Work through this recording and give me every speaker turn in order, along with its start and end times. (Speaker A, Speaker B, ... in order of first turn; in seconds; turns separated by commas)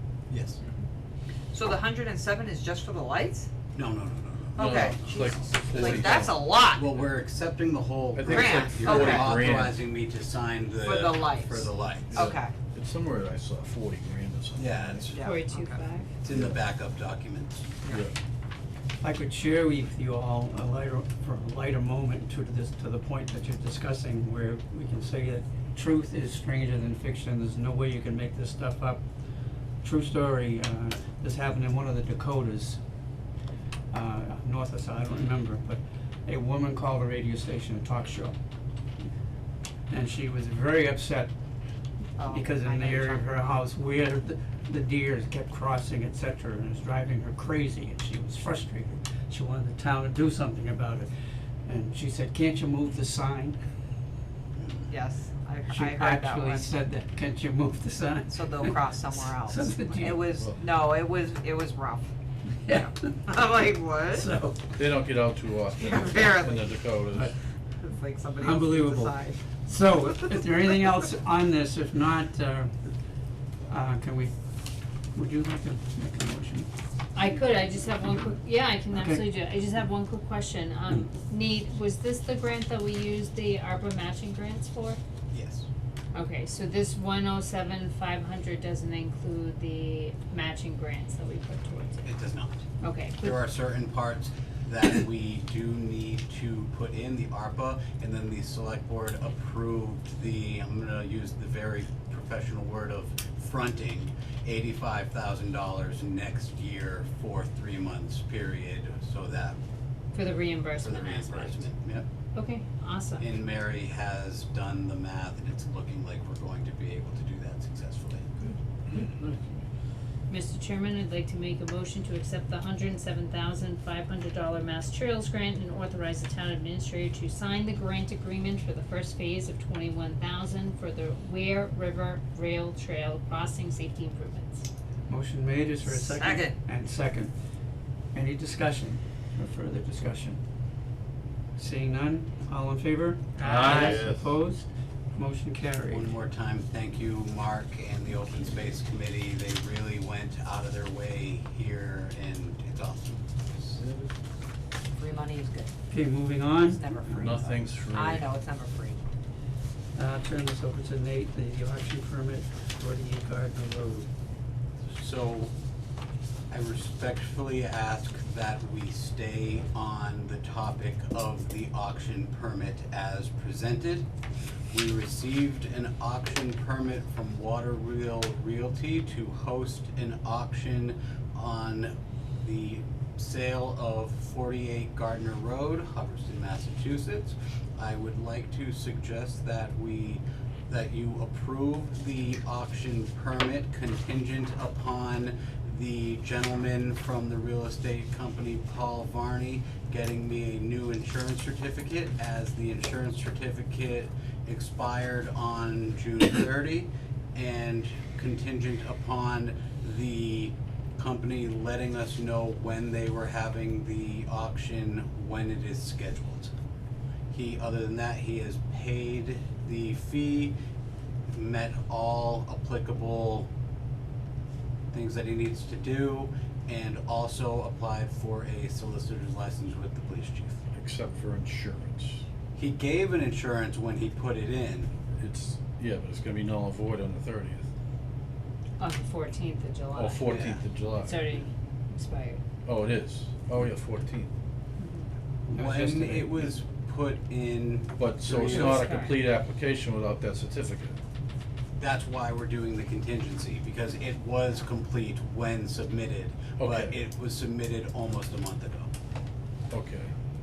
Speaker A: 0.3-0.6, Speaker B: 1.5-3.5, Speaker A: 3.7-4.9, Speaker B: 4.5-6.9, Speaker C: 4.6-6.4, Speaker A: 5.7-6.2, Speaker A: 6.7-12.3, Speaker C: 8.2-9.8, Speaker B: 8.3-9.3, Speaker B: 10.8-12.5, Speaker C: 12.1-15.0, Speaker A: 14.6-15.2, Speaker B: 15.1-15.8, Speaker D: 15.2-16.1, Speaker A: 16.2-17.7, Speaker C: 16.3-16.6, Speaker C: 17.9-18.1, Speaker E: 19.0-29.0, Speaker E: 29.8-32.8, Speaker E: 33.9-38.4, Speaker E: 39.9-41.3, Speaker B: 42.2-43.3, Speaker E: 42.3-51.1, Speaker E: 51.6-53.6, Speaker A: 54.6-54.9, Speaker B: 54.9-56.7, Speaker E: 55.7-58.8, Speaker B: 58.3-62.1, Speaker E: 59.3-60.2, Speaker C: 60.2-60.6, Speaker E: 62.6-63.1, Speaker B: 62.7-64.3, Speaker E: 64.1-64.7, Speaker C: 64.8-67.3, Speaker B: 65.8-66.8, Speaker B: 67.8-69.4, Speaker E: 68.4-72.7, Speaker E: 73.7-74.3, Speaker E: 75.1-76.7, Speaker D: 77.1-85.0, Speaker E: 78.9-79.3, Speaker A: 85.3-85.7, Speaker D: 86.1-92.1, Speaker A: 92.0-92.6, Speaker D: 92.8-93.4, Speaker A: 93.2-109.6, Speaker D: 110.1-111.7, Speaker A: 110.8-112.0, Speaker D: 112.3-113.2, Speaker A: 113.2-119.0, Speaker D: 120.3-134.7, Speaker E: 135.1-137.3, Speaker B: 135.8-136.6, Speaker E: 138.1-140.4, Speaker E: 141.6-146.1, Speaker C: 143.4-144.3, Speaker D: 143.4-143.9, Speaker A: 145.9-153.8, Speaker B: 154.9-155.7, Speaker E: 155.9-157.5, Speaker B: 156.6-159.0, Speaker C: 157.1-158.3, Speaker E: 159.9-164.1, Speaker A: 164.9-165.5, Speaker A: 166.5-174.1, Speaker A: 174.7-216.5, Speaker A: 217.3-220.6, Speaker A: 221.3-223.5, Speaker A: 224.9-230.6, Speaker C: 230.7-232.2, Speaker A: 232.6-234.9, Speaker C: 235.2-237.7, Speaker D: 238.8-242.4, Speaker C: 239.9-241.4, Speaker A: 240.2-240.6, Speaker C: 242.7-244.3, Speaker D: 244.8-245.1, Speaker E: 245.5-246.5, Speaker A: 245.5-248.8, Speaker C: 248.0-251.0, Speaker D: 248.3-249.2, Speaker A: 251.8-258.9, Speaker C: 256.6-256.9, Speaker C: 259.7-260.1